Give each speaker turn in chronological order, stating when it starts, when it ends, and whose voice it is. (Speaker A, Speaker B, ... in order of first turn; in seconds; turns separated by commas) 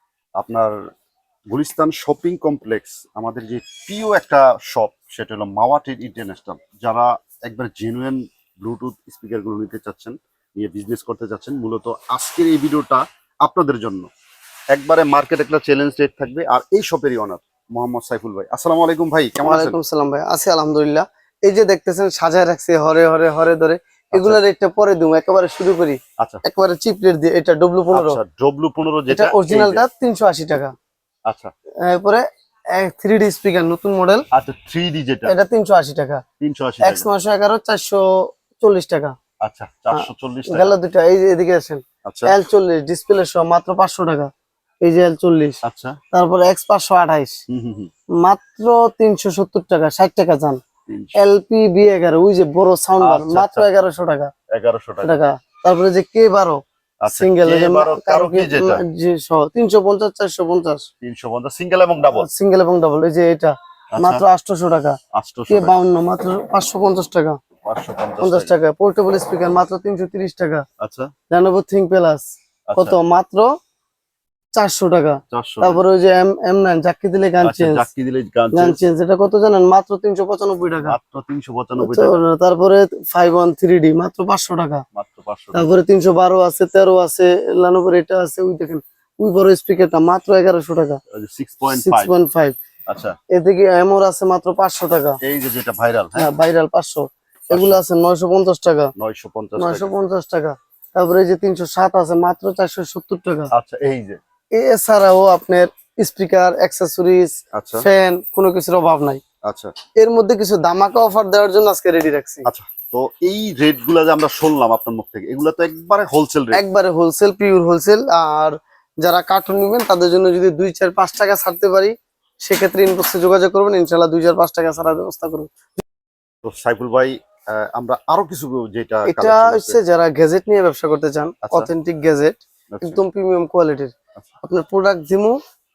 Speaker A: 0.4-0.8, Speaker A: 1.5-14.1, Speaker A: 14.7-19.8, Speaker B: 19.4-28.2, Speaker A: 24.1-24.4, Speaker A: 27.9-29.8, Speaker B: 29.1-30.8, Speaker A: 31.3-31.5, Speaker B: 31.8-34.3, Speaker A: 34.3-35.3, Speaker B: 35.3-36.2, Speaker A: 36.4-37.1, Speaker B: 36.8-39.1, Speaker A: 39.4-40.8, Speaker B: 39.9-44.3, Speaker A: 42.0-42.3, Speaker B: 44.8-45.6, Speaker A: 45.6-46.0, Speaker B: 46.1-47.4, Speaker A: 47.5-47.9, Speaker B: 48.2-50.6, Speaker A: 50.9-51.1, Speaker B: 51.2-54.3, Speaker A: 53.0-53.7, Speaker A: 54.5-55.2, Speaker B: 55.0-60.9, Speaker A: 57.0-58.8, Speaker A: 61.0-62.3, Speaker B: 62.1-65.0, Speaker A: 63.9-64.2, Speaker A: 65.1-65.7, Speaker B: 65.5-67.4, Speaker A: 67.7-68.5, Speaker B: 68.2-70.7, Speaker A: 70.8-71.1, Speaker B: 71.3-73.5, Speaker A: 72.7-73.0, Speaker B: 74.5-77.9, Speaker A: 75.3-75.8, Speaker A: 77.4-78.8, Speaker B: 78.5-81.0, Speaker A: 80.8-82.2, Speaker B: 81.8-84.8, Speaker A: 84.9-85.7, Speaker B: 85.5-91.0, Speaker A: 91.1-92.1, Speaker B: 91.7-92.6, Speaker A: 92.9-93.2, Speaker B: 93.3-95.2, Speaker A: 95.2-96.3, Speaker B: 96.2-98.9, Speaker A: 97.5-97.8, Speaker A: 99.0-99.9, Speaker B: 99.6-103.5, Speaker A: 103.5-104.2, Speaker B: 104.5-109.2, Speaker A: 107.5-107.9, Speaker A: 109.5-109.7, Speaker B: 110.0-112.5, Speaker A: 112.5-116.6, Speaker B: 116.5-125.8, Speaker A: 126.4-129.8, Speaker B: 129.1-135.4, Speaker A: 131.4-131.7, Speaker A: 132.7-133.0